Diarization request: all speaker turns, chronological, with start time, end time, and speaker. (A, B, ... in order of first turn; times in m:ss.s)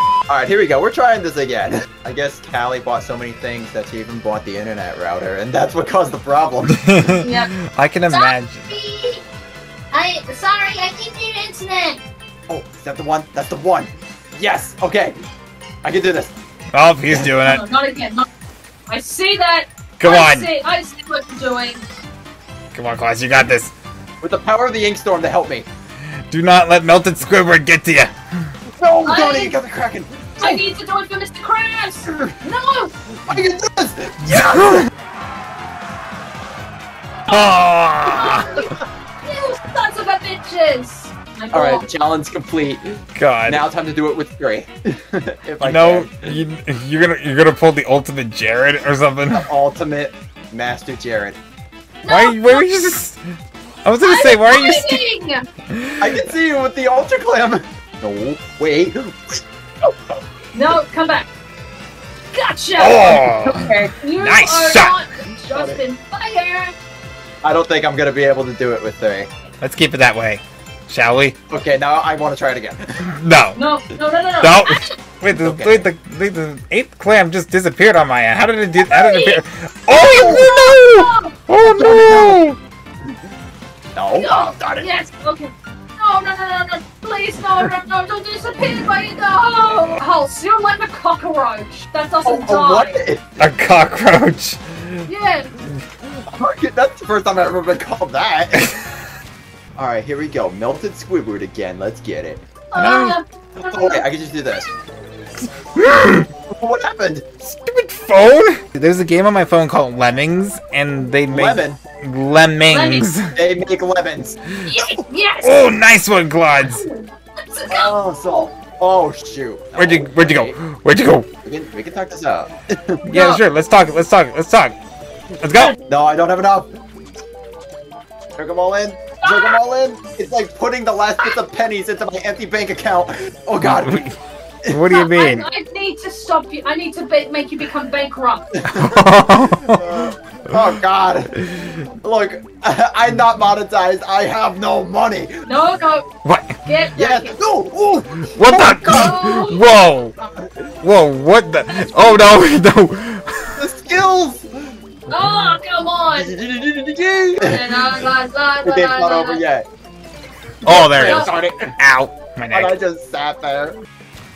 0:00.3-0:06.9 A
0:06.7-0:08.7 B
0:07.2-0:07.5 C
0:08.1-0:09.2 C
0:09.9-0:12.0 C
0:12.5-0:15.2 A
0:15.8-0:16.3 A
0:16.7-0:17.6 B
0:17.1-0:17.3 A
0:17.4-0:18.2 C
0:18.9-0:21.9 C
0:20.0-0:20.5 B
0:22.7-0:23.7 B
0:24.2-0:25.7 A
0:26.3-0:28.1 B
0:28.8-0:30.6 A
0:29.0-0:29.6 C
0:30.4-0:32.9 C
0:32.1-0:32.3 A
0:33.3-0:34.9 A
0:34.2-0:34.9 B
0:37.3-0:38.6 B
0:38.0-0:38.7 C
0:39.2-0:41.8 C
0:41.5-0:46.4 A
0:43.1-0:43.6 B
0:45.6-0:49.5 B
0:49.3-0:51.4 A
0:52.0-0:52.6 C
0:52.1-0:53.2 B
0:53.8-0:55.0 B
0:54.0-0:55.4 C
0:55.7-0:56.1 B
0:56.0-1:00.1 A
1:00.5-1:01.3 C
1:02.3-1:03.4 C
1:02.8-1:05.0 B
1:02.8-1:03.9 A
1:04.0-1:06.7 C
1:05.5-1:05.8 A
1:07.4-1:09.3 A
1:09.6-1:11.4 B
1:11.5-1:13.0 A
1:13.0-1:13.6 B
1:13.5-1:15.0 C
1:14.4-1:22.6 B
1:15.3-1:15.9 A
1:18.8-1:21.4 C
1:20.1-1:20.5 A
1:21.6-1:22.4 A
1:23.9-1:24.9 A
1:24.2-1:33.0 C
1:32.2-1:33.5 A
1:33.4-1:35.1 B
1:35.0-1:35.5 C
1:36.3-1:38.7 A
1:39.8-1:42.4 A
1:42.7-1:44.0 C
1:42.8-1:43.2 B
1:43.6-1:44.7 A
1:45.7-1:46.3 B
1:46.5-1:47.3 A
1:47.4-1:53.3 B
1:51.3-1:51.8 A
1:52.7-1:53.1 C
1:53.3-1:54.9 A
1:54.6-1:55.7 C
1:55.4-1:56.8 B
1:56.6-1:58.4 C
1:57.7-2:00.6 A
1:59.8-2:01.3 B
2:01.4-2:03.0 A
2:03.0-2:04.8 B
2:03.1-2:03.4 C
2:05.4-2:05.8 B
2:05.5-2:06.7 A
2:08.4-2:14.1 A
2:09.2-2:09.6 C
2:13.6-2:15.5 B
2:14.9-2:18.6 C
2:18.7-2:20.1 B
2:18.7-2:19.0 A
2:19.6-2:25.3 A
2:25.5-2:26.0 C
2:26.2-2:26.6 B
2:26.6-2:27.3 C
2:26.9-2:29.2 A
2:28.3-2:30.2 B
2:28.4-2:29.6 C
2:30.2-2:30.7 A
2:30.8-2:33.6 B
2:33.6-2:34.7 A
2:35.1-2:36.3 C
2:36.1-2:38.0 A
2:37.4-2:39.4 C
2:38.6-2:39.6 A
2:40.6-2:42.8 B
2:40.6-2:41.7 A
2:40.9-2:41.3 C
2:42.5-2:43.8 A